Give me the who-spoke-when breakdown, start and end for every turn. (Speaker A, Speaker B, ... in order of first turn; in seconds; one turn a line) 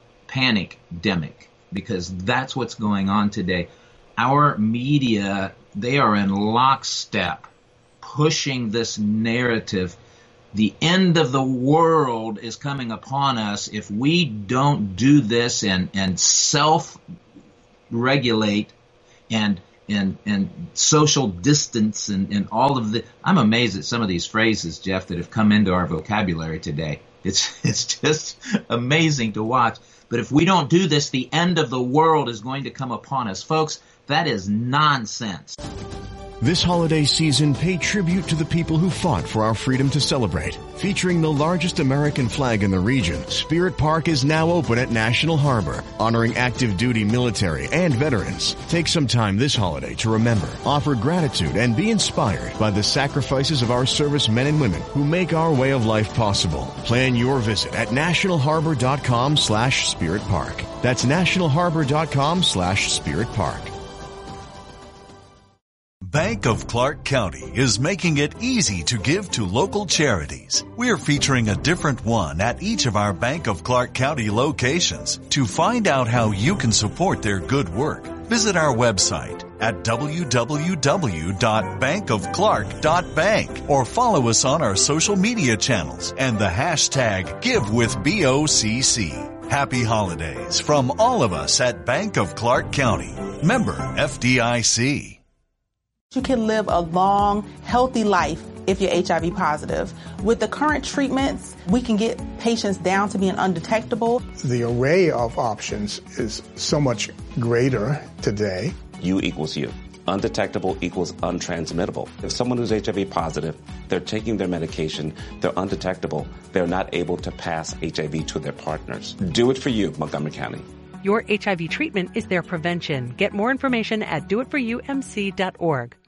Speaker A: 0.3-7.5
Speaker A: 8.0-10.0
Speaker A: 10.5-17.0
Speaker A: 17.9-18.7
Speaker A: 19.3-35.6
Speaker B: 36.4-63.7
Speaker C: 66.0-95.2
Speaker D: 96.1-104.2
Speaker E: 104.4-108.8
Speaker F: 109.0-120.7
Speaker G: 121.0-126.0